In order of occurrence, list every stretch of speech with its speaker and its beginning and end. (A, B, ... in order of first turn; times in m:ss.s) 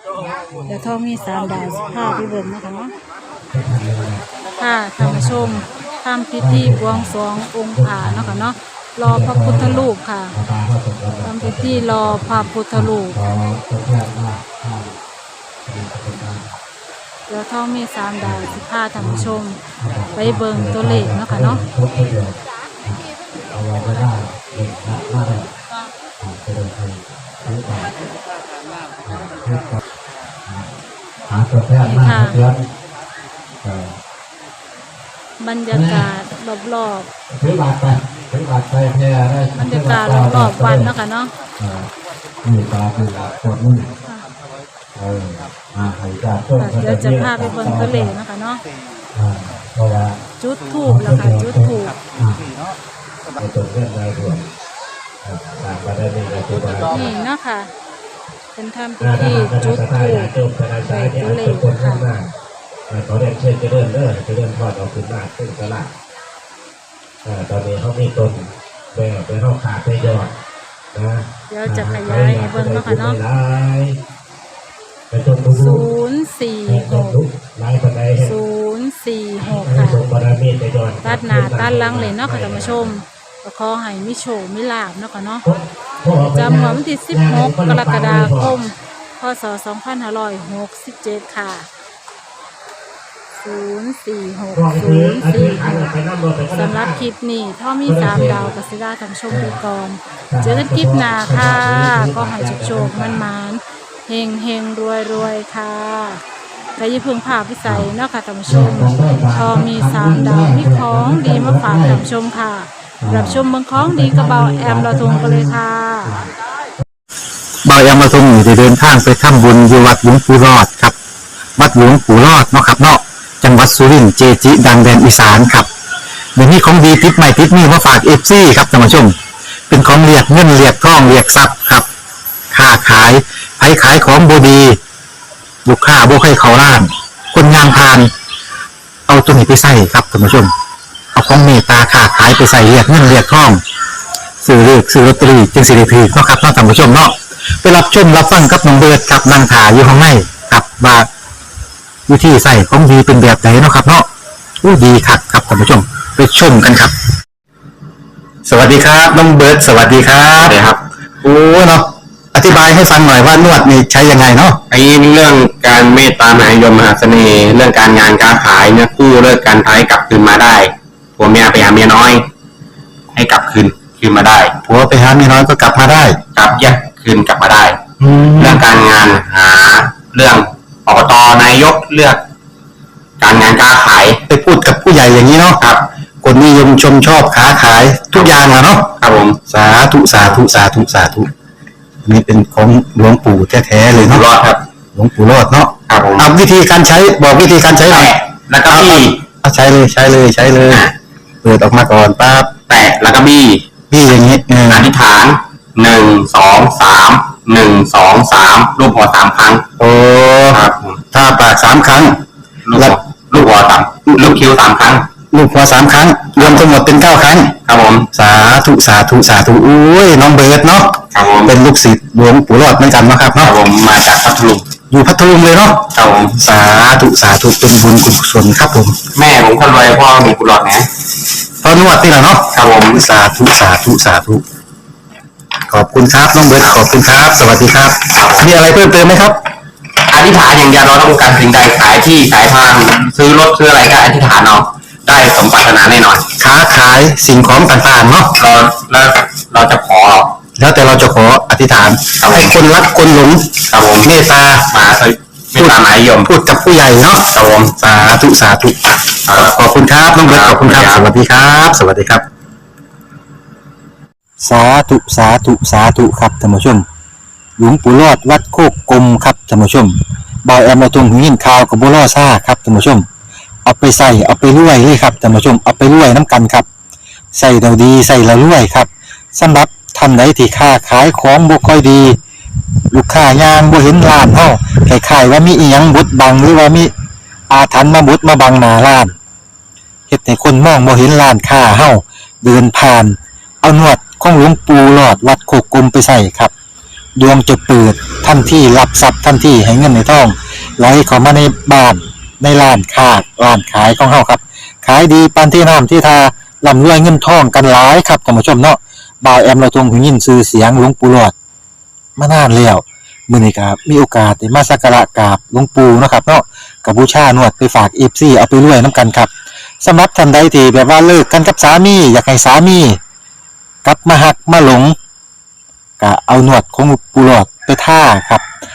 0:00.7-0:02.9 A
0:03.5-0:04.2 B
0:04.6-0:10.4 A
0:05.0-0:05.6 B
0:06.4-0:07.1 B
0:07.8-0:08.4 B
0:09.0-0:15.0 B
0:11.2-0:13.2 A
0:15.7-0:16.5 B
0:17.3-0:19.6 A
0:18.2-0:25.5 B
0:20.1-0:21.6 A
0:26.2-0:27.9 B
0:29.0-0:29.8 B
0:31.3-0:32.7 B
0:31.8-0:32.4 A
0:33.6-0:33.9 B
0:35.4-0:37.1 A
0:35.7-0:36.1 B
0:37.3-0:40.9 B
0:39.6-0:41.3 A
0:41.6-0:41.9 B
0:42.4-0:43.9 B
0:45.0-0:48.1 B
0:46.6-0:47.3 C
0:46.6-0:48.6 A
0:49.2-0:50.2 B
0:50.4-0:52.0 A
0:50.8-0:52.4 B
0:53.4-0:54.5 C
0:55.2-0:57.1 C
0:56.9-0:57.7 A
0:58.6-1:02.2 A
0:59.0-1:02.2 C
1:02.9-1:05.9 C
1:07.2-1:10.3 C
1:10.9-1:14.0 C
1:11.5-1:13.2 A
1:15.1-1:15.9 C
1:15.5-1:17.2 A
1:16.7-1:18.3 C
1:18.2-1:20.0 A
1:19.6-1:22.9 C
1:21.0-1:25.5 A
1:25.4-1:28.5 C
1:26.3-1:31.7 A
1:33.4-1:36.0 A
1:34.6-1:37.0 C
1:36.5-1:46.2 A
1:37.9-1:38.5 C
1:40.3-1:43.2 B
1:46.8-1:56.2 A
1:48.5-1:52.0 B
1:53.0-1:56.3 B
1:57.6-2:01.0 B
2:01.6-2:05.7 B
2:06.4-2:09.2 B
2:09.7-2:11.9 B
2:12.5-2:14.8 B
2:15.6-2:18.1 B
2:19.1-2:20.5 B
2:21.1-2:23.6 B
2:24.4-2:31.1 B
2:32.1-2:34.1 B
2:34.6-2:36.9 B
2:38.5-2:40.6 B
2:40.4-2:40.8 D
2:41.2-2:44.6 B
2:44.7-2:52.3 D
2:53.1-2:54.6 D
2:54.6-2:56.2 B
2:56.3-2:57.8 D
2:58.0-2:58.6 B
2:58.4-3:02.2 D
3:03.2-3:04.2 D
3:04.3-3:05.6 B
3:05.6-3:05.8 D
3:06.2-3:08.9 B
3:09.0-3:09.4 D
3:09.5-3:11.3 B
3:12.0-3:14.2 B
3:13.9-3:14.6 D
3:15.0-3:18.1 B
3:15.9-3:16.3 D
3:17.8-3:19.2 D
3:18.7-3:20.8 B
3:20.6-3:20.9 D
3:21.4-3:22.5 B
3:22.6-3:23.6 D
3:23.9-3:24.9 B
3:24.7-3:29.7 D
3:29.8-3:30.6 B
3:30.5-3:31.0 D
3:31.1-3:32.2 B
3:32.7-3:35.1 D
3:34.1-3:34.4 B
3:35.3-3:37.5 B
3:36.4-3:36.7 D
3:37.6-3:38.1 D
3:38.1-3:43.5 B
3:41.1-3:41.5 D
3:43.4-3:44.7 D
3:44.9-3:49.0 B
3:45.9-3:46.4 D
3:49.2-3:50.9 D
3:51.6-3:54.4 B
3:52.5-3:53.0 D
3:55.7-3:59.4 B
3:58.1-3:58.5 D
4:00.1-4:06.3 D
4:06.4-4:08.4 B
4:08.4-4:10.3 D
4:10.6-4:14.7 B
4:12.2-4:12.6 D
4:13.7-4:14.2 D
4:14.7-4:16.3 D
4:16.2-4:22.2 B
4:17.3-4:17.8 D
4:19.3-4:19.6 D
4:20.2-4:21.1 D
4:24.4-4:26.8 B
4:27.6-4:33.1 B
4:33.6-4:36.7 B
4:37.3-4:42.2 B
4:42.9-4:46.9 B
4:47.5-4:49.1 B
4:50.1-4:56.5 B
4:57.2-5:11.3 B
5:12.2-5:19.3 B
5:19.8-5:23.0 B
5:23.8-5:25.0 B
5:26.0-5:28.4 B